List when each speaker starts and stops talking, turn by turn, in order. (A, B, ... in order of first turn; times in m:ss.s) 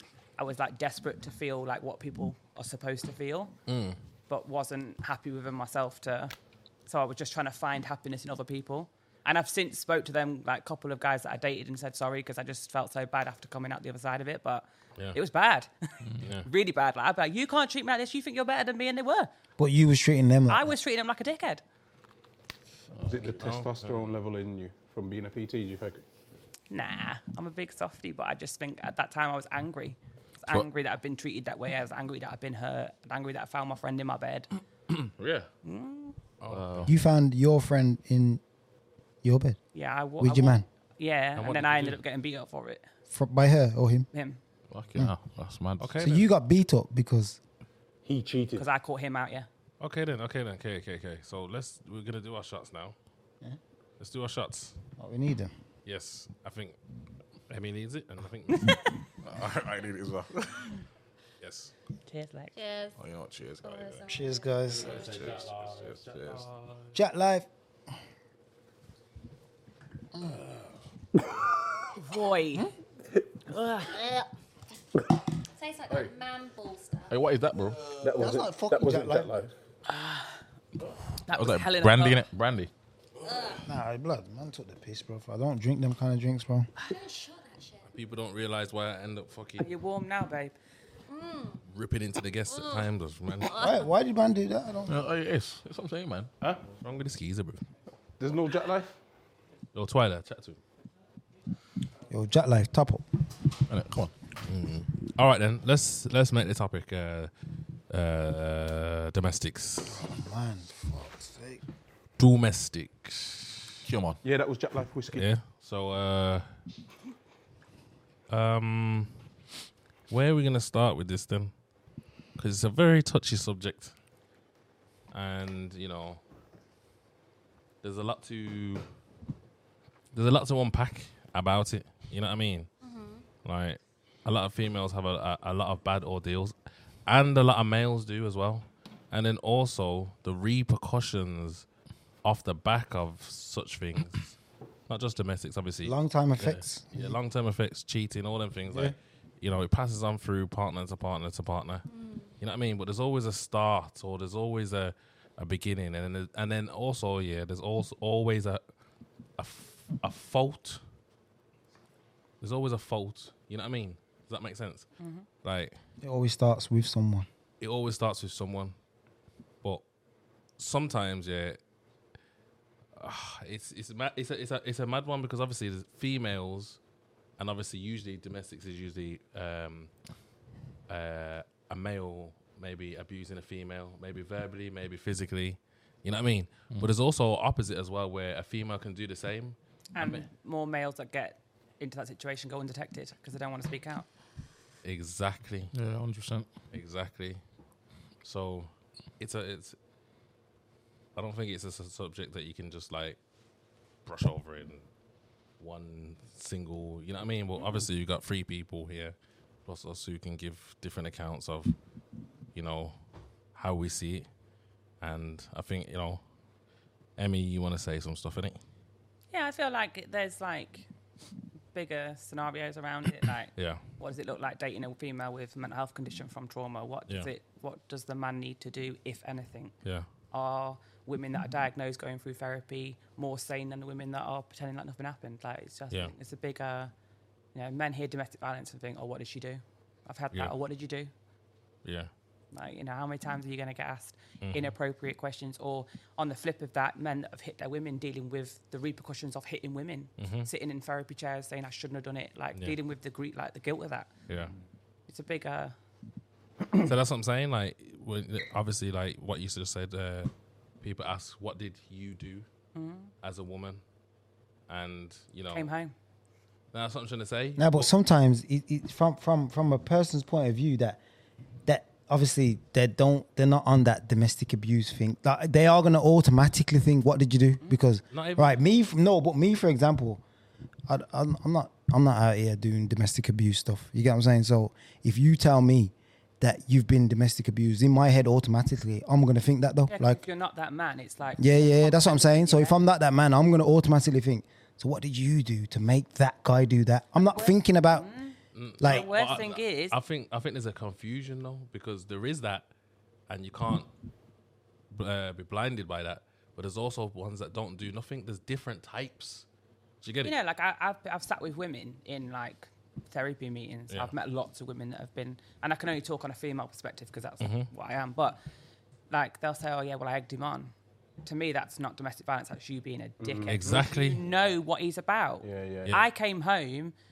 0:00.4-0:03.5 A
0:03.7-0:04.0 B
0:04.3-0:06.3 A
0:06.9-0:19.3 A
0:16.2-0:16.5 B
0:19.6-0:20.7 C
0:20.5-0:21.6 A
0:23.0-0:23.4 D
0:23.0-0:26.0 E
0:23.4-0:24.1 B
0:26.7-0:34.5 A
0:35.2-0:35.5 D
0:35.6-0:36.2 A
0:36.4-0:36.9 B
0:36.5-0:36.9 D
0:36.8-0:38.4 C
0:39.2-0:39.6 C
0:39.7-0:42.8 A
0:40.2-0:40.6 C
0:41.4-0:42.0 B
0:43.1-0:44.1 C
0:44.1-0:44.4 A
0:44.7-0:46.0 D
0:45.8-0:46.3 B
0:46.0-0:47.4 C
0:48.0-0:48.6 E
0:48.6-0:49.5 A
0:49.8-0:53.0 B
0:54.0-0:54.7 B
0:55.0-0:55.5 C
0:55.8-0:56.8 B
0:57.5-0:58.8 B
0:58.5-0:58.9 A
0:59.2-1:00.8 D
1:01.4-1:01.7 B
1:02.1-1:02.5 A
1:02.5-1:03.0 F
1:03.0-1:04.1 D
1:03.6-1:04.7 F
1:04.1-1:05.0 C
1:04.7-1:06.9 B
1:04.8-1:06.4 D
1:06.9-1:07.5 C
1:12.0-1:12.7 A
1:13.5-1:13.9 A
1:13.9-1:14.2 F
1:15.6-1:17.1 F
1:17.1-1:18.0 D
1:18.0-1:19.5 E
1:18.1-1:19.4 C
1:19.9-1:20.3 A
1:21.2-1:22.2 A
1:21.3-1:22.7 D
1:23.2-1:23.6 F
1:23.6-1:26.7 C
1:26.8-1:27.9 F
1:27.9-1:29.7 B
1:29.6-1:30.5 A
1:31.1-1:31.6 F
1:31.7-1:33.5 B
1:32.5-1:33.9 F
1:33.6-1:35.0 C
1:34.8-1:36.3 D
1:36.7-1:37.6 B
1:38.2-1:38.9 E
1:39.7-1:40.6 B
1:42.1-1:43.0 C
1:43.7-1:44.1 D
1:44.4-1:47.3 B
1:47.9-1:50.0 B
1:49.9-1:51.6 C
1:52.2-1:53.7 B
1:53.8-1:54.2 D
1:54.2-1:55.3 E
1:55.1-1:56.5 B
1:58.3-1:59.2 B
2:00.1-2:01.5 B
2:02.4-2:03.9 B
2:05.1-2:06.2 B
2:07.8-2:08.8 B
2:10.1-2:12.7 B
2:12.8-2:13.2 F
2:13.4-2:16.5 B
2:17.0-2:21.7 B
2:22.2-2:24.4 B
2:24.9-2:31.8 B
2:25.8-2:27.1 C
2:31.9-2:32.3 F
2:32.4-2:38.6 B
2:39.4-2:40.8 B
2:42.4-2:44.9 B
2:45.0-2:45.3 A
2:45.4-2:45.8 B
2:46.0-2:47.3 C
2:47.6-2:48.7 B
2:50.6-2:51.6 B
2:53.0-2:56.8 B
2:57.4-2:59.9 B
3:00.9-3:09.6 B
3:09.9-3:14.1 A
3:14.8-3:15.7 B
3:15.7-3:16.5 D
3:16.7-3:17.4 B
3:18.2-3:19.8 B
3:21.2-3:23.2 B
3:24.0-3:24.8 B
3:25.6-3:29.1 B
3:29.6-3:31.7 B
3:32.5-3:32.9 B
3:33.5-3:34.3 B
3:35.0-3:36.2 B
3:37.2-3:38.6 B
3:39.3-3:40.9 A
3:41.7-3:56.9 A
3:43.6-3:43.8 B
3:57.5-4:01.1 A
4:01.8-4:02.1 B
4:02.5-4:14.1 A
4:04.4-4:04.7 B
4:10.2-4:10.5 B
4:15.1-4:15.7 A
4:16.7-4:22.5 B
4:22.7-4:23.1 A
4:23.2-4:23.8 B
4:24.7-4:25.7 B
4:25.5-4:25.9 A
4:26.7-4:27.9 B
4:27.6-4:31.0 C
4:31.6-4:40.2 C
4:38.1-4:38.6 B
4:40.9-4:50.2 C
4:49.9-4:52.8 A
4:51.4-4:58.1 C
4:57.2-5:00.0 A
4:58.5-5:02.7 B
4:58.8-4:59.1 C
5:03.3-5:03.9 B
5:04.9-5:09.4 B
5:10.0-5:10.3 B
5:10.2-5:18.4 A
5:17.4-5:17.7 B
5:19.1-5:20.7 A
5:21.2-5:26.9 A
5:23.2-5:24.0 E
5:23.5-5:24.2 B
5:25.4-5:25.9 E